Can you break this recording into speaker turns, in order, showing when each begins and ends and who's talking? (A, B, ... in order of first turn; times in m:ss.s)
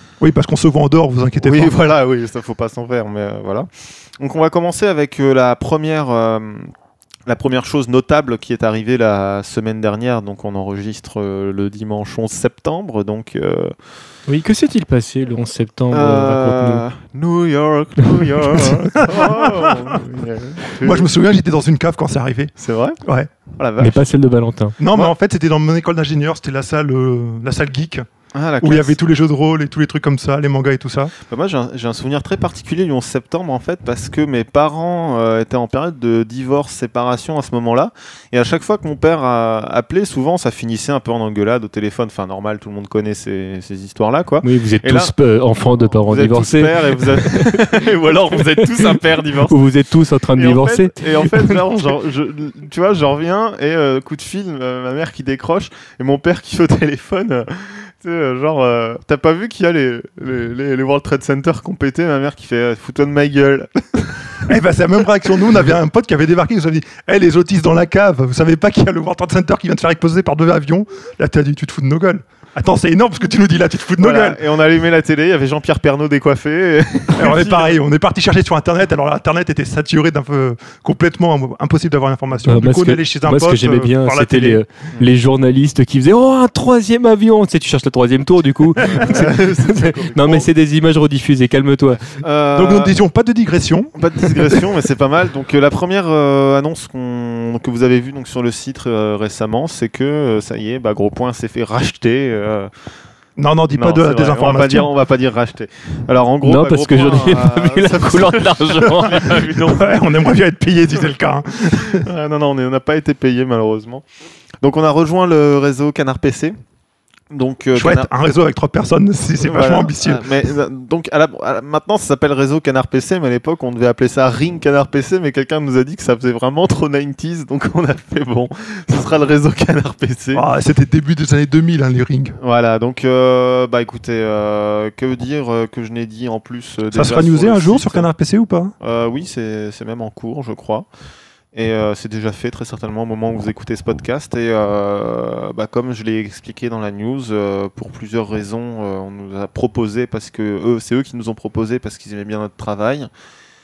0:00.2-0:01.9 A
0:01.4-0:03.7 B
0:04.2-0:06.7 B
0:07.3-0:13.7 B
0:14.3-0:16.8 C
0:15.9-0:21.1 B
0:18.0-0:18.6 C
0:18.8-0:20.0 A
0:20.8-0:22.5 A
0:22.6-0:23.0 B
0:23.0-0:23.3 A
0:23.5-0:24.0 B
0:23.8-0:24.8 C
0:24.8-0:28.1 A
0:28.3-0:29.0 B
0:28.6-0:31.1 A
0:31.2-0:45.1 B
0:44.4-0:47.8 C
0:45.8-0:49.6 B
0:48.5-0:51.6 C
0:50.3-1:04.5 B
1:04.4-1:14.4 A
1:14.0-1:17.8 B
1:17.1-1:24.6 A
1:22.4-1:32.1 C
1:28.8-1:30.5 B
1:28.8-1:29.3 A
1:32.0-1:33.0 B
1:32.5-1:34.6 A
1:33.9-1:42.7 B
1:43.4-1:44.9 A
1:43.8-1:50.0 B
1:46.4-1:49.4 C
1:49.5-1:52.0 A
1:51.8-1:54.0 B
1:54.6-1:56.5 B
1:57.3-1:58.1 B
1:57.7-2:00.3 A
1:59.4-2:10.4 B
2:10.3-2:12.4 A
2:12.4-2:18.1 B
2:16.9-2:18.7 A
2:18.8-2:20.8 B
2:21.5-2:33.1 B